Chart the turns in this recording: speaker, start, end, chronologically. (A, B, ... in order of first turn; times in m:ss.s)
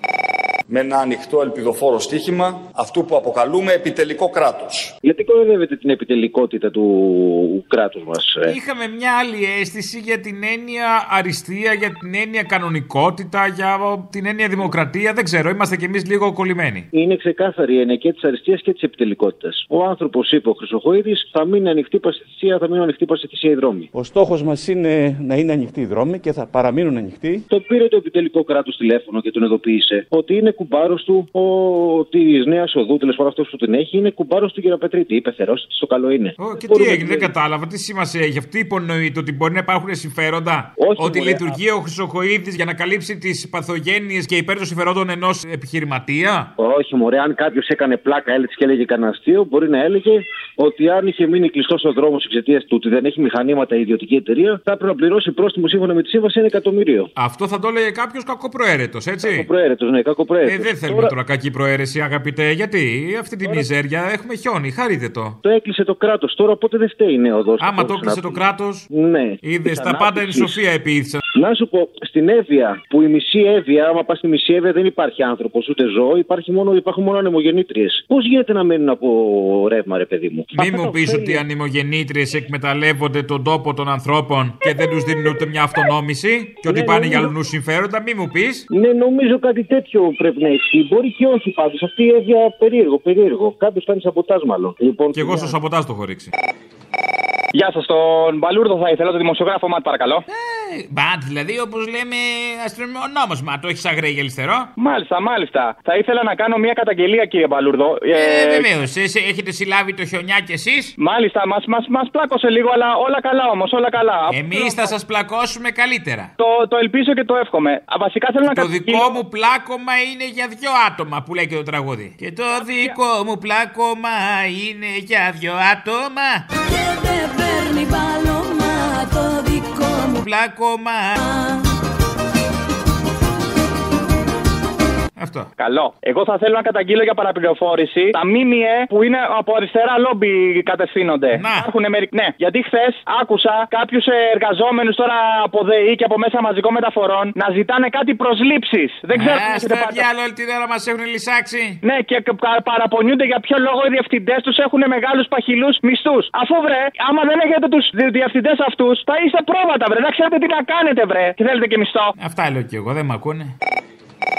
0:00.7-0:04.9 A
0:05.0-0:08.5 B
0:08.4-0:16.9 C
0:16.9-0:23.9 B
0:23.9-0:27.4 D
0:27.5-0:37.3 B
0:36.4-0:46.5 C
0:40.8-0:41.6 B
0:46.6-0:57.1 B
0:57.2-0:59.5 C
0:59.2-1:01.1 B
1:00.4-1:05.4 C
1:05.4-1:10.6 B
1:07.6-1:08.9 C
1:09.4-1:11.2 C
1:11.3-1:21.4 B
1:20.5-1:28.6 C
1:26.6-1:27.3 B
1:28.7-1:35.5 B
1:35.1-1:36.3 C
1:37.5-1:40.2 E
1:40.3-1:44.7 C
1:44.8-1:48.7 E
1:48.1-1:50.9 C
1:51.0-1:54.8 E
1:54.3-1:56.3 C
1:56.4-1:59.1 E
1:58.4-2:06.4 C
2:06.6-2:10.2 F
2:10.1-2:11.2 C
2:11.2-2:11.6 F
2:15.2-2:15.5 C
2:15.6-2:30.0 E
2:21.3-2:21.7 C
2:29.1-2:31.8 C
2:31.8-2:42.1 E
2:42.2-2:43.5 C